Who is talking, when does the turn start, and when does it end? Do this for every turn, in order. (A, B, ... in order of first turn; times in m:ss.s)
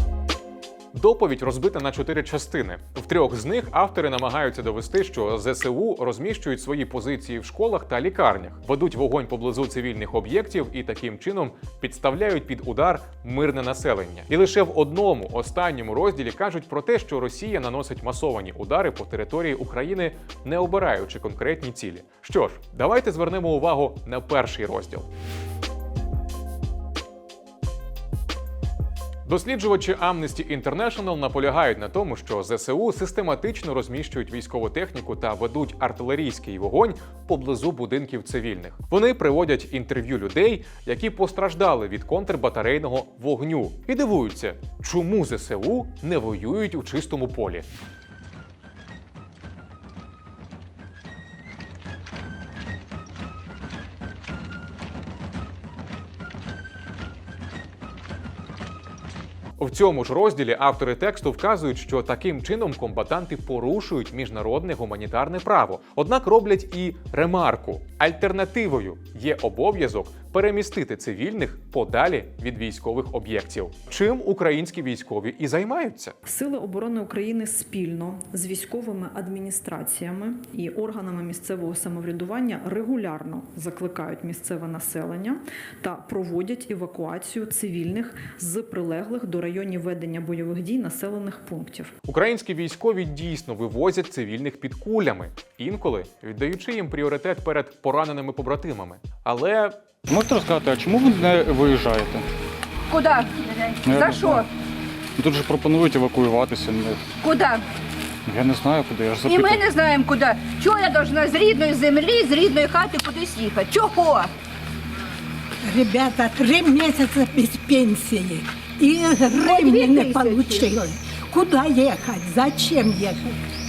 0:00.9-0:25.1 A
0:29.2-0:47.6 A
0:59.6-1:16.2 A
1:16.2-1:31.9 B
1:32.1-1:39.8 A
1:40.0-1:42.2 C
1:42.9-1:44.5 D
1:43.8-1:44.4 C
1:45.2-1:47.0 C
1:47.2-1:47.6 D
1:48.3-1:49.6 C
1:49.2-1:54.3 D
1:55.6-2:03.4 E
1:59.3-2:00.8 D